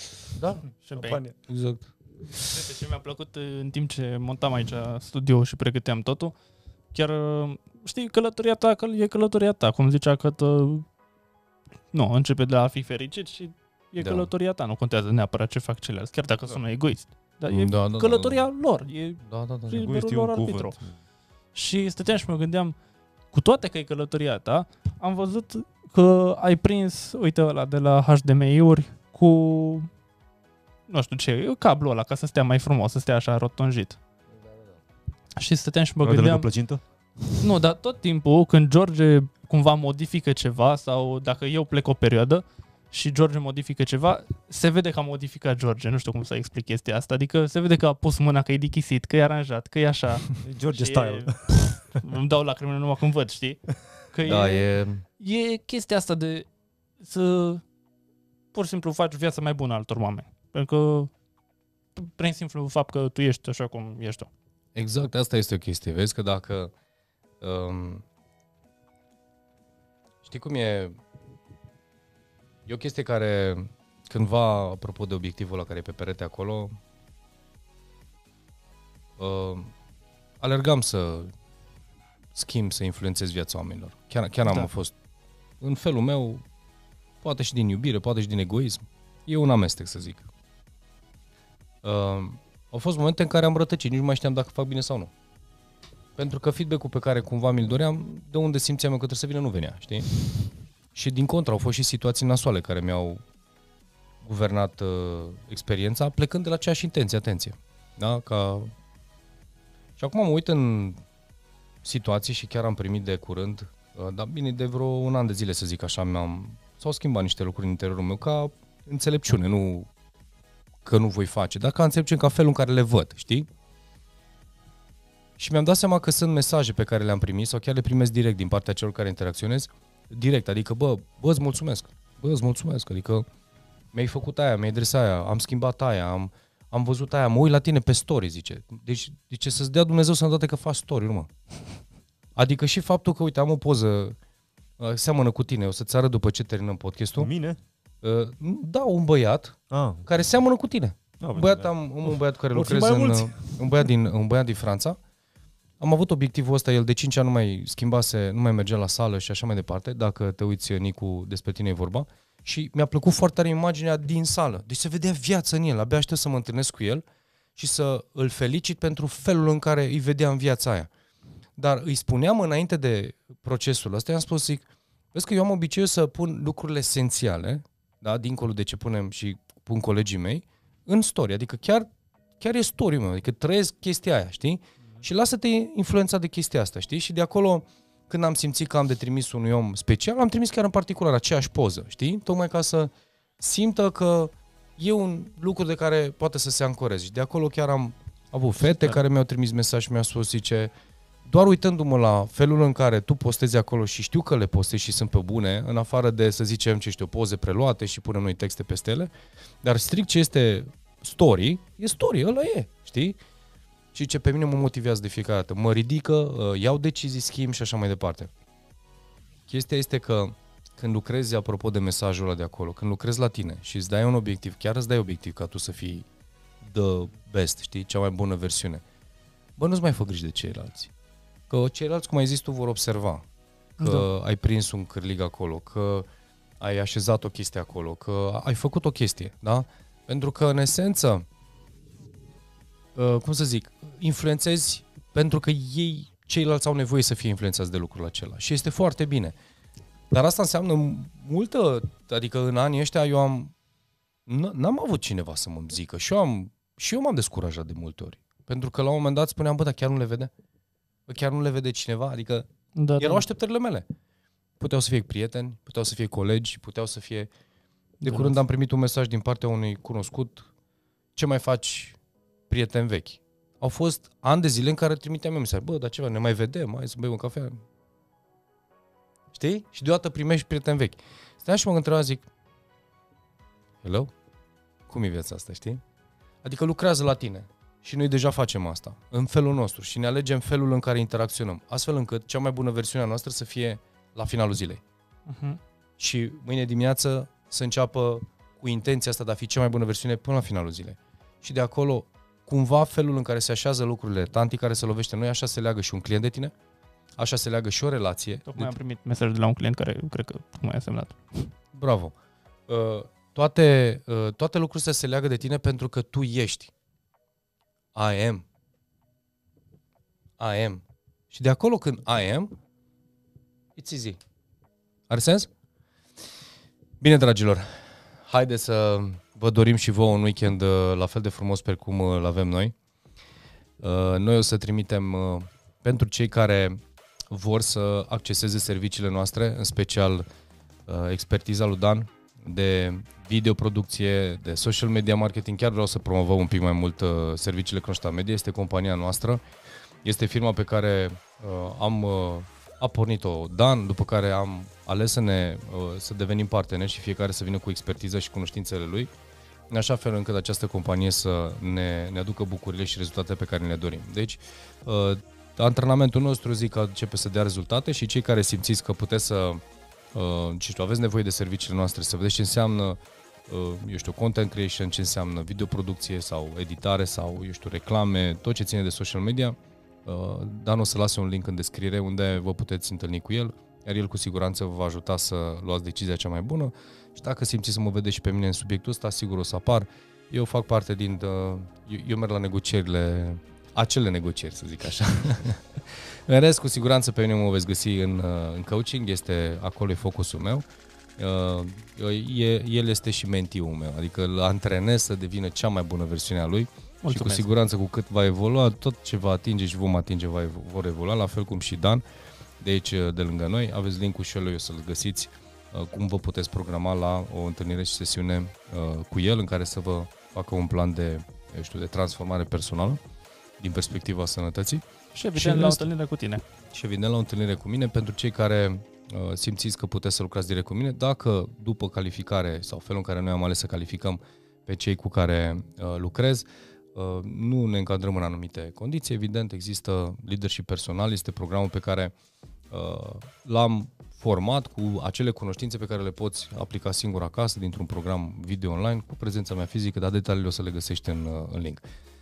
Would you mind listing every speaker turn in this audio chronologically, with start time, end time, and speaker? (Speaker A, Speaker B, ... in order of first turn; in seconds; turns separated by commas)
Speaker A: 0.4-0.6, Speaker B: 0.7-1.2, Speaker C: 0.9-1.4, Speaker A: 1.5-2.4, Speaker B: 2.4-6.3, Speaker B: 6.9-10.9, Speaker B: 11.9-20.8, Speaker A: 14.0-14.3, Speaker A: 17.5-18.4, Speaker A: 19.2-19.9, Speaker C: 19.8-20.9, Speaker B: 21.6-22.7, Speaker B: 23.3-29.9, Speaker B: 30.9-34.0, Speaker A: 34.4-34.8, Speaker B: 35.4-36.5, Speaker C: 36.0-37.3, Speaker B: 37.4-56.5, Speaker C: 50.4-52.0, Speaker A: 54.3-55.0, Speaker B: 57.0-57.6, Speaker B: 58.5-61.1, Speaker B: 62.0-64.3, Speaker A: 64.7-66.7, Speaker A: 67.4-68.0, Speaker A: 70.2-71.0, Speaker A: 72.7-76.8, Speaker A: 79.2-79.7, Speaker A: 80.4-81.3, Speaker A: 82.3-84.9, Speaker B: 84.5-84.7, Speaker A: 85.6-86.4, Speaker A: 87.2-90.3, Speaker A: 91.8-95.1, Speaker A: 96.2-100.1, Speaker A: 100.9-103.2, Speaker A: 104.2-108.7, Speaker A: 110.0-111.0, Speaker A: 111.8-119.9, Speaker A: 120.8-123.5, Speaker A: 125.4-133.3, Speaker A: 133.9-141.3, Speaker A: 142.4-144.2, Speaker A: 144.8-147.3, Speaker C: 147.2-147.6, Speaker A: 148.0-155.0, Speaker C: 149.7-150.1, Speaker C: 151.2-153.9, Speaker A: 155.8-167.0, Speaker A: 167.6-170.9, Speaker A: 171.6-181.9, Speaker A: 182.4-200.7, Speaker A: 201.3-209.1, Speaker A: 209.6-213.2, Speaker A: 213.9-218.3, Speaker A: 219.5-226.1, Speaker A: 226.6-228.8, Speaker A: 229.6-230.9, Speaker A: 231.5-233.2, Speaker B: 233.8-234.1, Speaker A: 233.8-236.1, Speaker A: 236.6-241.2, Speaker A: 242.9-249.4, Speaker A: 250.1-253.5, Speaker A: 254.3-260.3, Speaker A: 261.1-263.9, Speaker B: 262.7-263.2, Speaker A: 264.6-267.3, Speaker B: 268.0-268.4, Speaker A: 268.0-270.5, Speaker A: 271.2-272.0, Speaker A: 272.5-277.6, Speaker A: 279.3-282.3, Speaker A: 283.8-284.1, Speaker A: 284.9-285.8, Speaker A: 286.4-294.8, Speaker B: 295.3-295.6, Speaker A: 296.0-306.5, Speaker A: 307.2-308.7, Speaker B: 308.5-311.5, Speaker A: 311.7-312.1, Speaker A: 312.7-316.7, Speaker A: 317.9-318.4, Speaker A: 320.4-322.5, Speaker A: 323.8-324.2, Speaker A: 325.1-325.5, Speaker A: 327.0-332.7, Speaker A: 333.8-336.8, Speaker A: 337.3-340.2, Speaker A: 340.9-349.4, Speaker A: 350.0-359.1, Speaker A: 359.7-369.6, Speaker A: 370.1-400.6, Speaker A: 401.2-412.0, Speaker B: 407.0-407.4, Speaker A: 412.6-423.0, Speaker A: 423.6-424.8, Speaker B: 425.1-426.4, Speaker A: 425.4-425.9, Speaker A: 426.7-442.1, Speaker A: 442.7-451.8